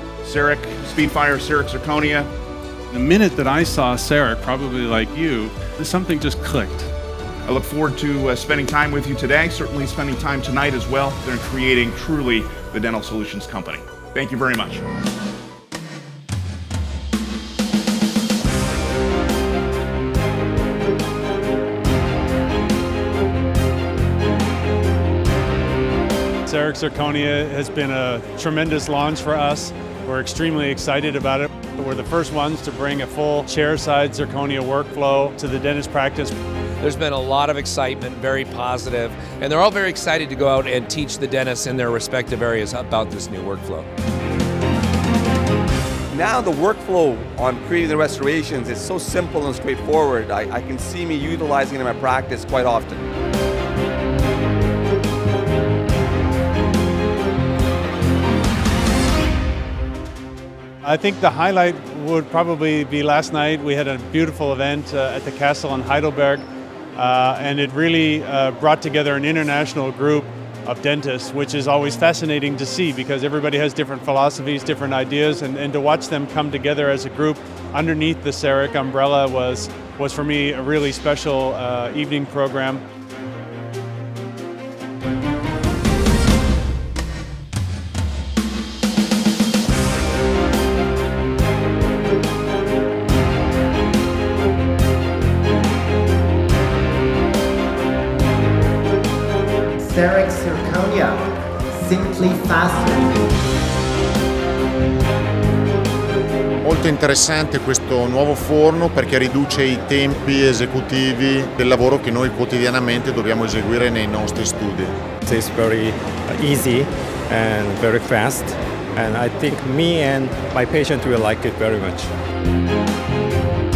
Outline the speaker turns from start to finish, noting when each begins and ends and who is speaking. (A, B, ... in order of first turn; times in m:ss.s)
0:00.2-0:02.3 A
0:02.9-0:06.9 B
0:07.4-0:14.8 A
0:26.4-0:36.3 B
0:36.8-0:43.9 C
0:46.1-0:53.0 D
1:00.8-1:06.4 B
1:06.9-1:22.8 B
1:39.8-1:43.2 E
1:46.6-1:54.9 F
1:55.2-2:02.1 G